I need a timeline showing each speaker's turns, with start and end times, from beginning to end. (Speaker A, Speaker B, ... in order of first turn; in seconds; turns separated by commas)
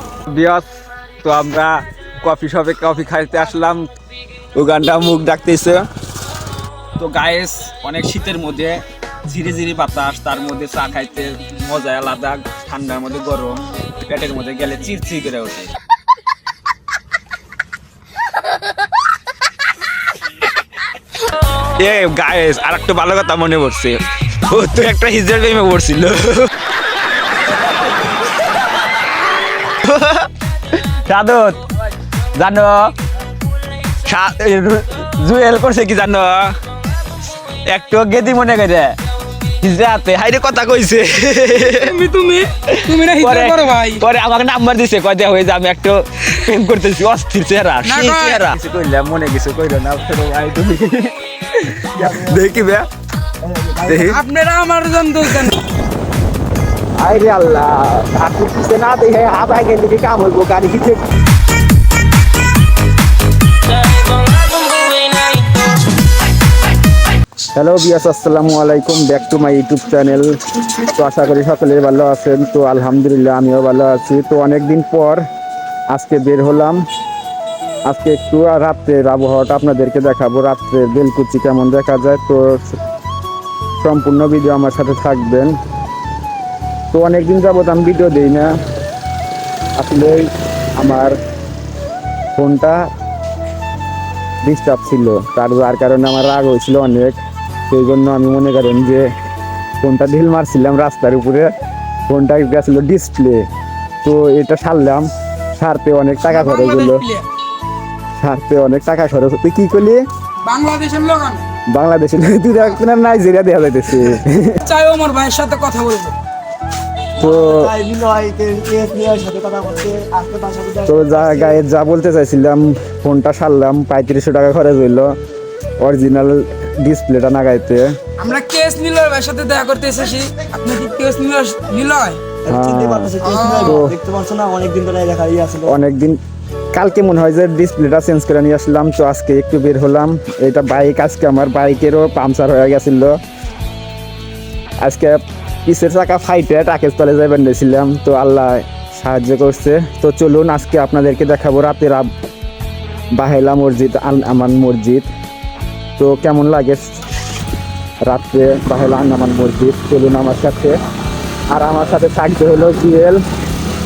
Speaker A: 0.2-0.6, Speaker A: 1.2-3.9, Speaker A: 4.5-5.8, Speaker A: 7.0-15.8, Speaker A: 21.8-26.5, Speaker A: 29.7-30.3, Speaker A: 30.8-31.6, Speaker A: 32.3-32.9, Speaker A: 34.0-36.5, Speaker A: 37.7-39.0, Speaker A: 39.6-41.9, Speaker B: 41.6-44.0, Speaker A: 42.7-52.9, Speaker B: 47.8-48.5, Speaker C: 51.9-52.6, Speaker C: 53.4-54.2, Speaker A: 53.9-54.2, Speaker B: 54.1-55.5, Speaker A: 57.0-61.0, Speaker B: 64.8-65.2, Speaker A: 67.5-75.2, Speaker A: 75.9-76.8, Speaker A: 77.9-82.8, Speaker A: 83.8-85.5, Speaker A: 86.9-88.5, Speaker A: 89.8-91.2, Speaker A: 92.4-92.9, Speaker A: 94.4-99.1, Speaker A: 99.8-101.5, Speaker A: 102.1-103.5, Speaker A: 104.0-107.0, Speaker B: 106.2-107.2, Speaker A: 108.2-110.0, Speaker B: 110.4-111.4, Speaker A: 111.7-114.6, Speaker B: 114.6-116.1, Speaker A: 117.2-117.7, Speaker C: 117.2-121.6, Speaker A: 120.9-125.1, Speaker A: 125.8-128.0, Speaker B: 128.2-132.2, Speaker C: 132.4-135.8, Speaker A: 132.5-133.9, Speaker B: 133.2-133.8, Speaker A: 135.7-136.2, Speaker A: 136.7-143.2, Speaker A: 144.8-152.1, Speaker A: 153.2-155.1, Speaker A: 156.0-156.8, Speaker A: 158.1-160.7, Speaker A: 161.5-163.2